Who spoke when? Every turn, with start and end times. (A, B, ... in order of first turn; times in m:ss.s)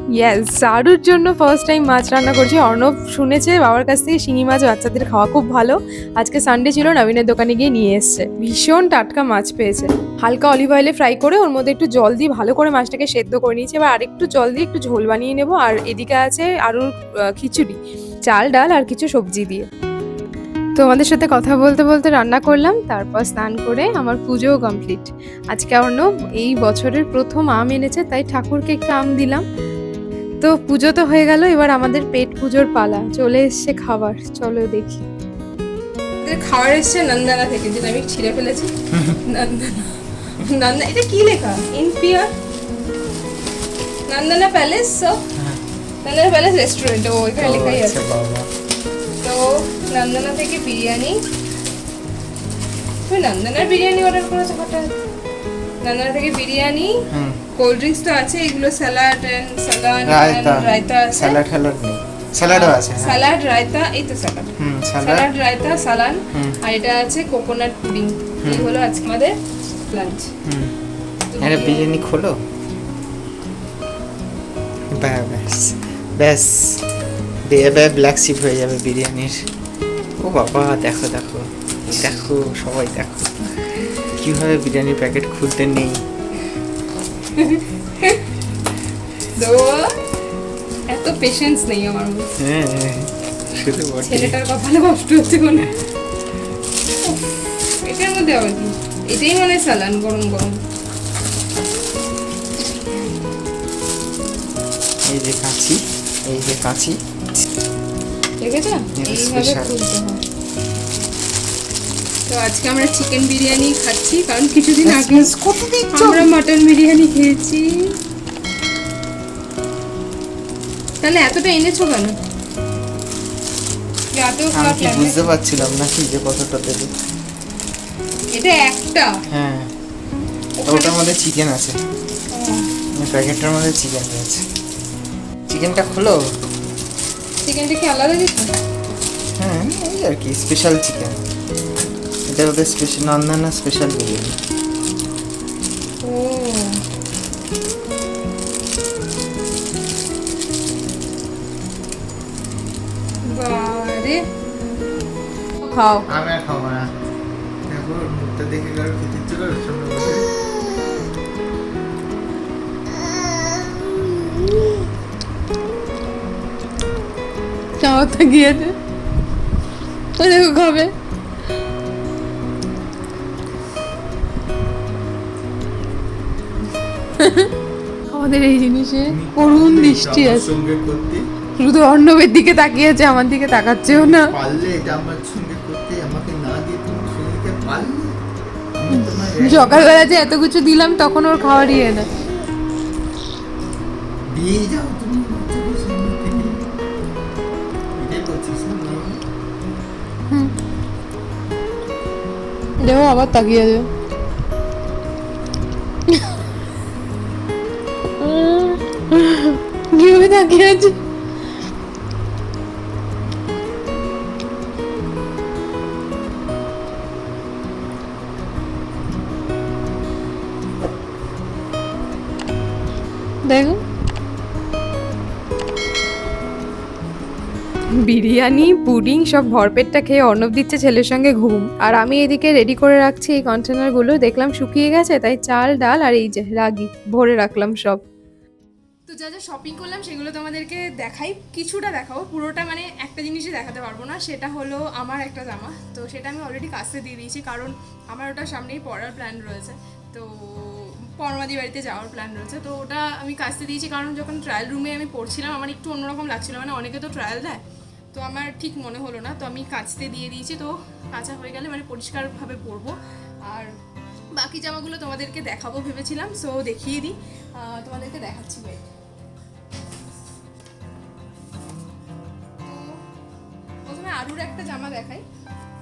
0:00.2-0:19.7 A
0:20.8-0:29.4 A
0:30.5-0:35.0 A
0:36.2-0:38.7 B
0:38.9-0:39.2 C
0:39.3-0:42.3 B
0:44.1-0:45.2 B
0:46.0-0:48.1 B
0:47.4-0:48.5 C
0:49.2-0:51.2 B
0:53.1-0:55.0 B
0:55.8-0:56.9 B
0:57.1-0:57.4 C
0:57.6-1:01.4 B
1:00.1-1:03.2 C
1:02.5-1:10.3 B
1:04.6-1:05.3 C
1:08.4-1:08.7 C
1:10.4-1:10.8 C
1:11.3-1:11.8 B
1:11.4-1:12.4 C
1:14.9-1:16.8 C
1:17.5-1:19.5 C
1:20.2-1:23.4 C
1:24.2-1:26.0 C
1:27.4-1:28.2 B
1:29.4-1:30.0 B
1:30.9-1:32.3 B
1:32.4-1:34.4 C
1:34.0-1:35.7 B
1:37.0-1:40.6 B
1:45.1-1:47.0 C
1:48.4-1:50.2 B
1:49.0-1:49.7 C
1:52.3-1:55.3 B
1:54.8-1:56.3 C
1:55.9-1:57.9 B
2:01.0-2:02.2 B
2:04.1-2:05.2 B
2:04.5-2:06.9 C
2:08.3-2:09.2 B
2:09.3-2:09.7 C
2:10.7-2:11.0 B
2:10.7-2:11.8 C
2:12.3-2:12.7 B
2:13.0-2:14.4 C
2:15.5-2:16.2 C
2:17.4-2:18.5 B
2:19.4-2:21.2 C
2:22.3-2:24.4 C
2:26.0-2:26.8 B
2:33.3-2:34.2 B
2:35.6-2:36.0 B
2:36.1-2:36.9 C
2:37.7-2:40.3 C
2:47.8-2:48.8 B
2:50.2-2:50.9 B
2:57.2-2:57.5 B
2:58.1-3:00.4 B
2:59.1-3:01.3 C
3:01.6-3:04.3 B
3:03.9-3:08.2 C
3:08.8-3:10.1 C
3:09.0-3:12.1 B
3:14.3-3:16.6 C
3:18.0-3:19.2 C
3:22.8-3:23.9 B
3:28.2-3:31.0 B
3:43.5-3:43.8 B
3:48.0-3:58.0 A
3:59.1-4:17.6 B
4:18.1-4:23.7 B
4:24.3-4:28.9 B
4:33.9-4:35.2 B